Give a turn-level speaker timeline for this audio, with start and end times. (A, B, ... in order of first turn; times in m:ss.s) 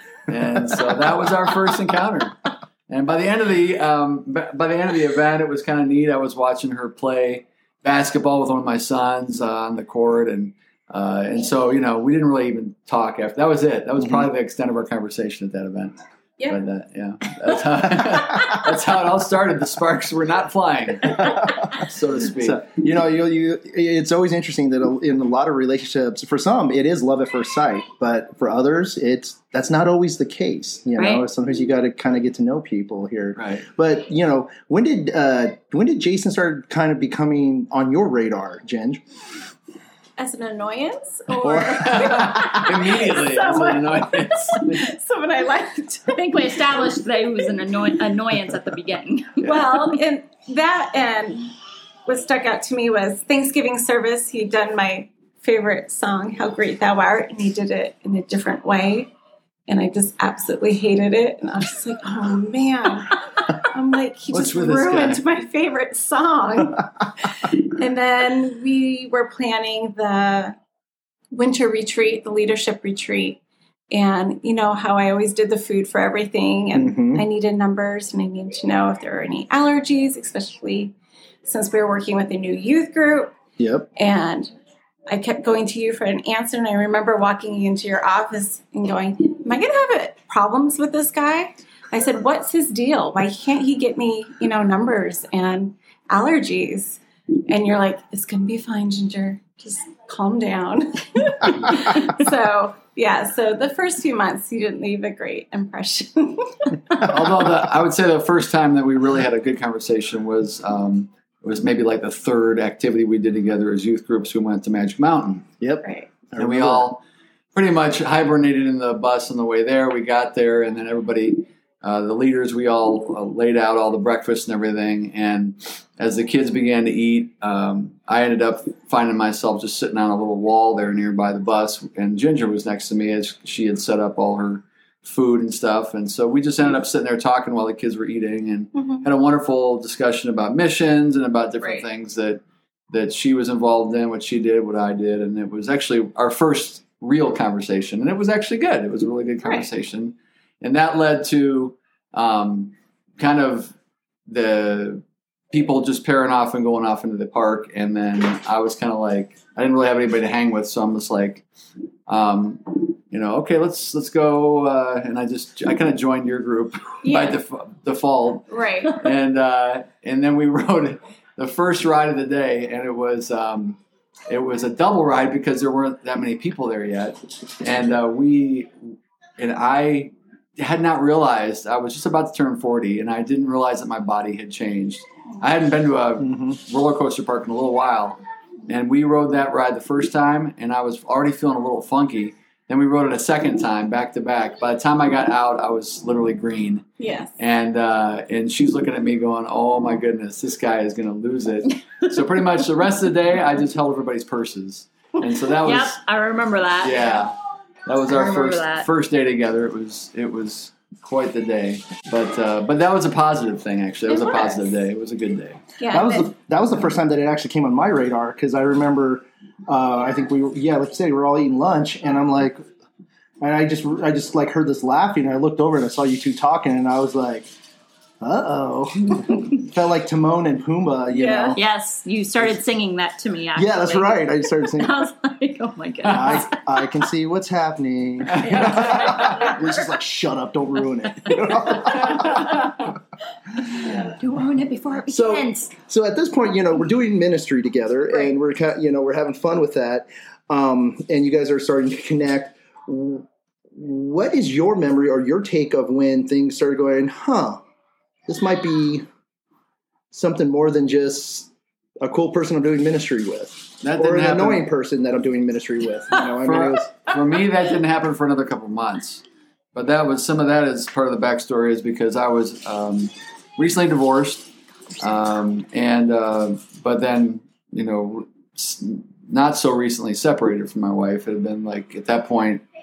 0:00.3-0:22.7 A
0:14.0-0:14.3 B
0:21.2-0:21.7 B
0:22.4-0:39.0 B
0:31.0-0:31.2 C
0:33.4-0:33.6 A
0:40.2-0:46.2 D
0:41.4-0:42.5 B
0:41.8-0:44.8 A
0:46.1-0:49.9 C
0:49.4-0:51.5 D
0:52.0-0:59.1 D
0:59.7-1:10.6 D
1:04.3-1:05.2 A
1:11.3-1:13.4 D
1:13.9-1:23.3 D
1:16.7-1:17.2 B
1:23.6-1:23.9 B
1:23.9-1:24.5 D
1:25.1-1:46.8 D
1:47.0-1:55.5 A
1:55.6-1:56.9 B
1:55.8-1:56.1 D
1:56.4-1:57.0 A
1:57.5-2:33.7 A
2:18.7-2:19.0 D
2:34.3-2:41.4 A
2:42.1-3:26.0 A
2:47.0-2:47.4 D
2:48.5-2:49.0 D
3:06.2-3:06.6 B
3:17.0-3:17.4 D
3:25.6-3:27.1 C
3:26.8-3:27.3 A
3:27.8-3:35.6 A
3:28.1-3:28.9 C
3:34.1-3:34.6 D
3:35.8-3:36.3 D
3:35.9-3:42.6 B
3:43.4-3:47.5 B
3:48.2-3:51.6 B
3:51.1-3:51.6 D
3:51.6-3:56.9 C
3:53.5-3:55.0 B
3:56.1-4:02.7 B
3:58.3-3:58.7 A
3:58.4-3:59.8 C
4:01.4-4:02.7 C
4:03.7-4:05.7 C
4:05.1-4:17.6 B
4:18.3-4:19.0 B
4:20.1-4:21.5 B
4:22.0-4:26.9 B
4:23.8-4:24.7 A
4:26.3-4:29.2 A
4:29.7-4:42.6 A